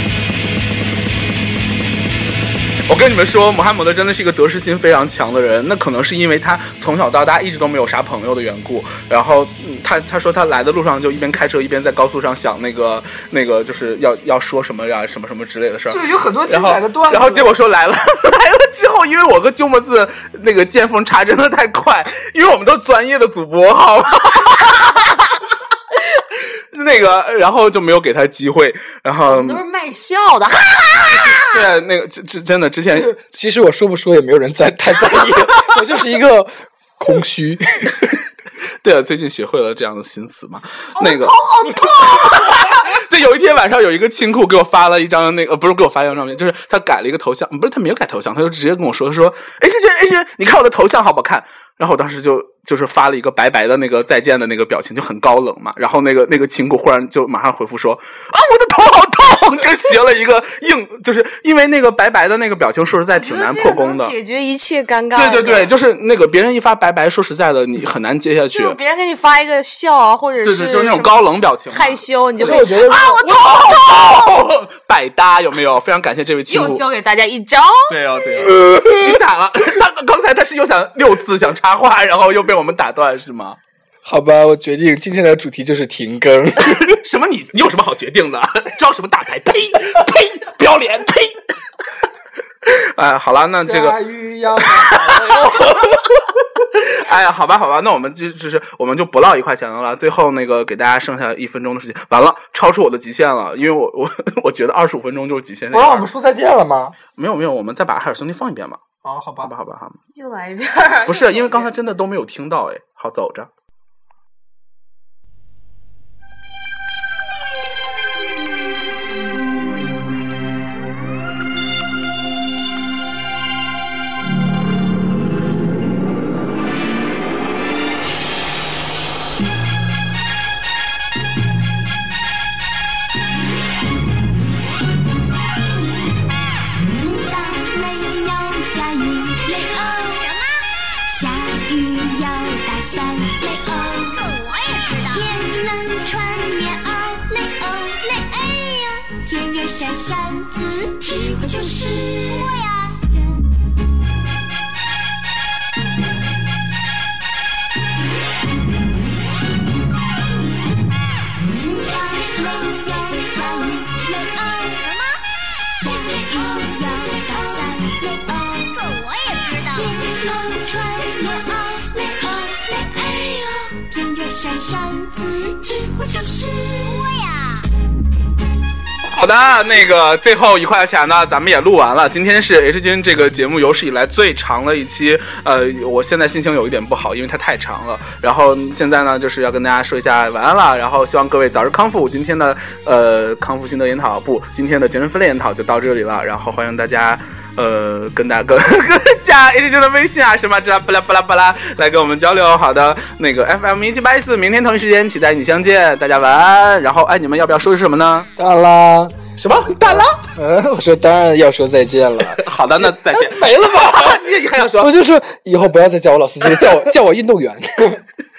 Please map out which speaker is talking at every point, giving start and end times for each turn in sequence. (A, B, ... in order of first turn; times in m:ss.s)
0:02.9-0:25.2 A
0:15.9-0:17.6 B
0:26.2-0:29.6 A
0:29.3-0:31.6 C
0:31.4-0:33.1 A
0:32.9-0:38.1 B
0:38.8-1:04.1 A
0:41.0-0:42.7 C
1:03.1-1:05.7 C
1:05.2-1:08.8 A
1:08.5-1:14.2 C
1:10.4-1:16.8 A
1:12.4-1:13.2 B
1:16.5-1:17.9 C
1:17.9-1:23.6 A
1:24.0-1:26.9 B
1:26.6-1:31.4 A
1:32.6-1:34.0 A
1:33.6-1:35.7 B
1:34.6-1:46.1 A
1:45.7-1:47.0 B
1:47.2-1:48.8 A
1:49.0-1:49.5 B
1:49.4-1:50.0 A
1:50.2-1:51.7 C
1:51.1-1:53.5 A
2:16.8-2:33.4 D
2:41.4-2:57.6 D
2:59.1-3:28.3 A
3:28.4-3:29.2 B
3:29.4-3:30.2 A
3:29.8-3:38.0 B
3:32.4-3:34.9 A